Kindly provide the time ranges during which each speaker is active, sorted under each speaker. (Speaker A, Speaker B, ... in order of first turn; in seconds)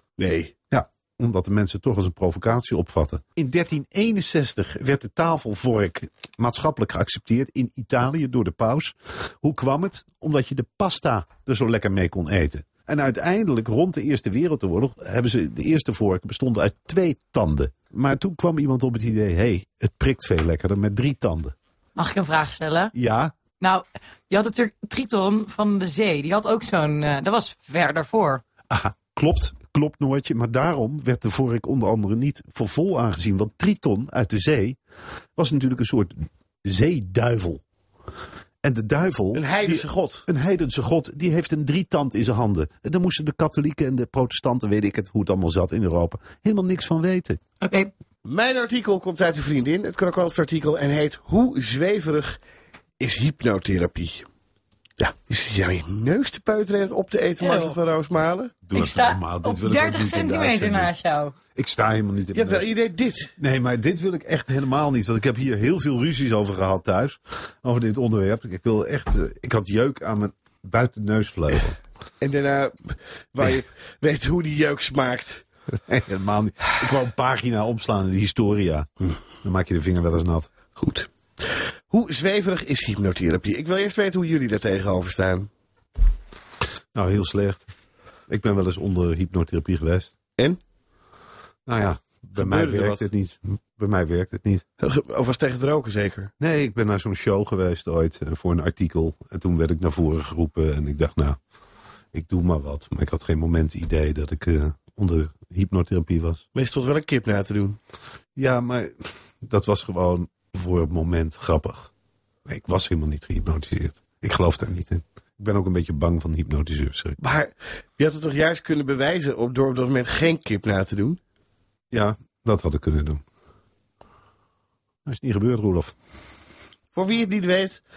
Speaker A: 0.2-0.5, 39.3-40.3, 48.2-52.4, 53.0-54.3, 55.0-58.5, 62.3-63.3, 72.2-75.5, 80.8-85.5, 92.4-93.1, 94.8-96.3, 106.5-107.8, 117.2-121.2, 126.9-127.8
Speaker B: 0.7-21.6, 22.9-23.3, 28.7-34.8, 35.4-37.6, 38.6-47.4, 58.6-60.9, 61.5-62.7, 63.4-71.8, 75.9-78.9, 79.4-80.5, 86.9-87.7, 88.3-90.2, 91.7-94.7, 96.4-101.4, 102.1-106.4, 108.4-111.9, 112.5-117.2, 121.9-123.2, 125.1-125.9
Speaker C: 22.0-22.9, 23.6-28.4, 47.6-47.9, 57.4-57.8, 58.7-61.4